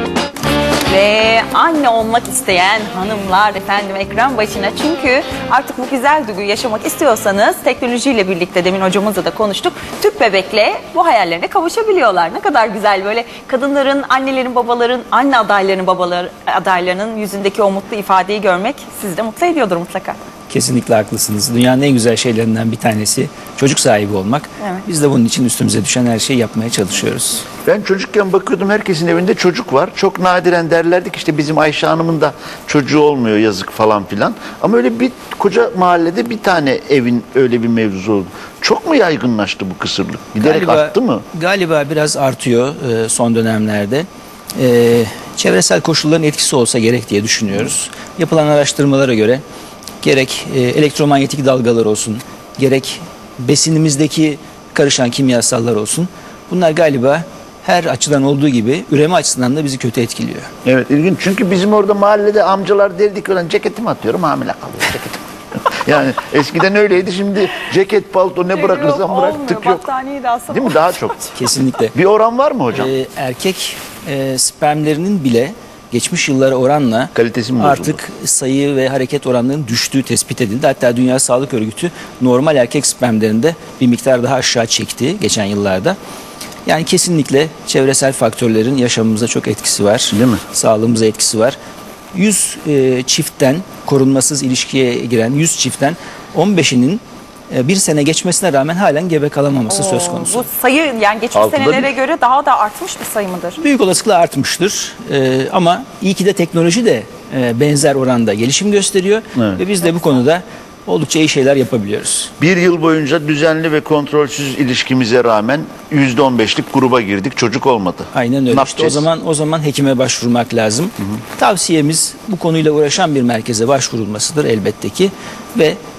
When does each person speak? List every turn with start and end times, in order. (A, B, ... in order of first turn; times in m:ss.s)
0:00.9-0:20.2 A
0:20.5-0:27.5 B
0:27.6-0:41.2 C
0:40.4-0:49.4 B
0:50.0-1:00.5 B
1:00.6-1:09.9 C
1:08.5-1:11.4 A
1:10.5-1:11.2 C
1:11.4-1:11.9 B
1:11.9-1:12.9 C
1:12.7-1:26.0 B
1:17.2-1:18.0 C
1:26.6-1:31.6 B
1:30.1-1:30.4 C
1:32.1-1:40.5 B
1:39.7-1:43.6 A
1:41.3-1:41.9 C
1:43.6-1:52.3 B
1:49.4-1:49.6 C
1:52.4-1:59.1 C
1:58.1-2:05.8 B